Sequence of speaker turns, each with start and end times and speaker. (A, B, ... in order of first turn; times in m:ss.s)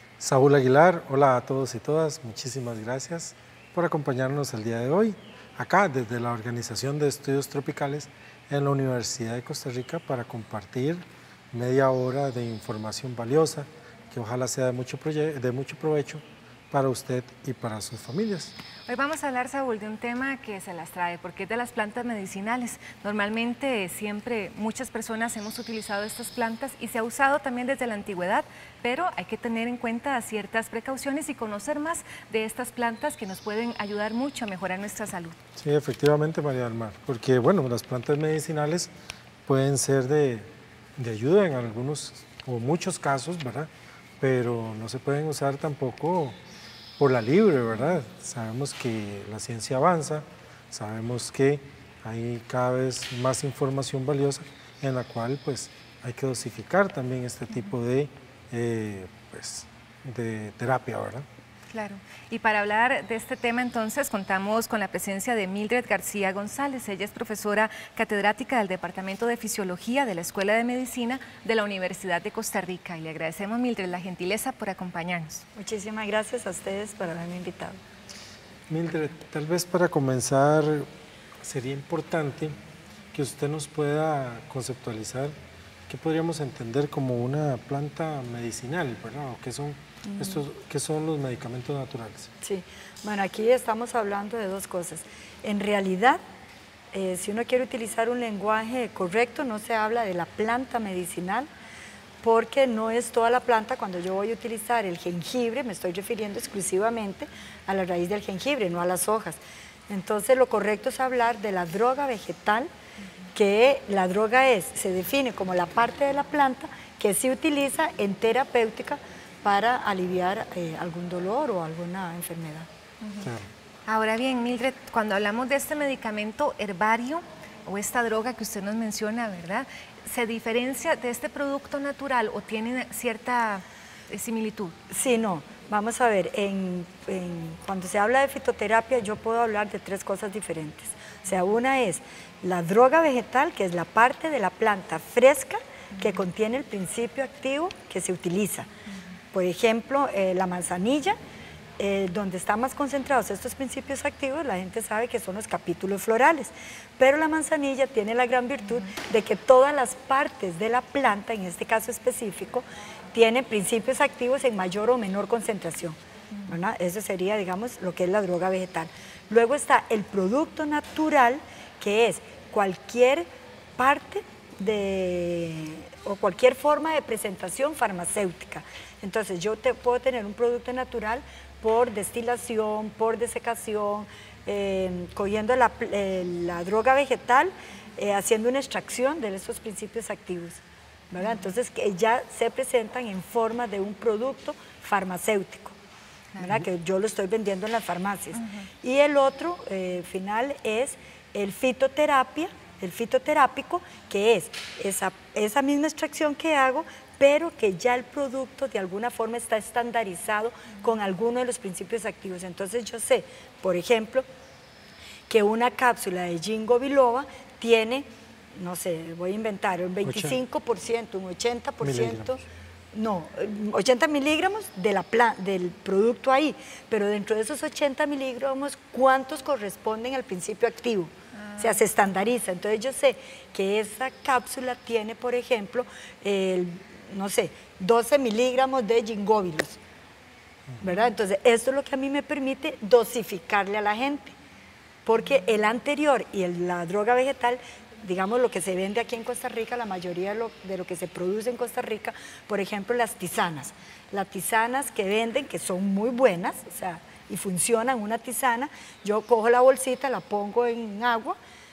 0:00.2-0:18.5 A
0:18.9-0:35.4 B
0:35.6-0:38.9 A
0:39.5-0:43.7 A
0:44.2-0:46.4 A
0:47.0-1:01.3 A
1:01.7-1:15.4 B
1:15.6-1:17.8 C
1:18.7-1:20.9 A
1:21.4-1:22.6 A
1:23.1-1:25.3 A
1:25.9-1:32.3 A
1:30.0-1:30.4 C
1:32.4-1:36.2 C
1:36.9-1:41.5 C
1:42.2-1:52.7 C
1:53.4-2:02.7 C
2:03.2-2:03.5 A
2:03.9-2:14.8 B
2:14.9-2:28.7 C
2:29.3-2:31.2 C
2:31.8-2:53.3 C
2:53.8-3:15.8 C
3:16.4-3:34.3 C
3:35.3-3:42.4 C
3:40.0-3:40.4 A
3:41.8-3:42.3 A
3:42.9-3:59.8 C
3:51.4-3:51.8 B
4:00.8-4:04.4 C
4:05.1-4:21.4 C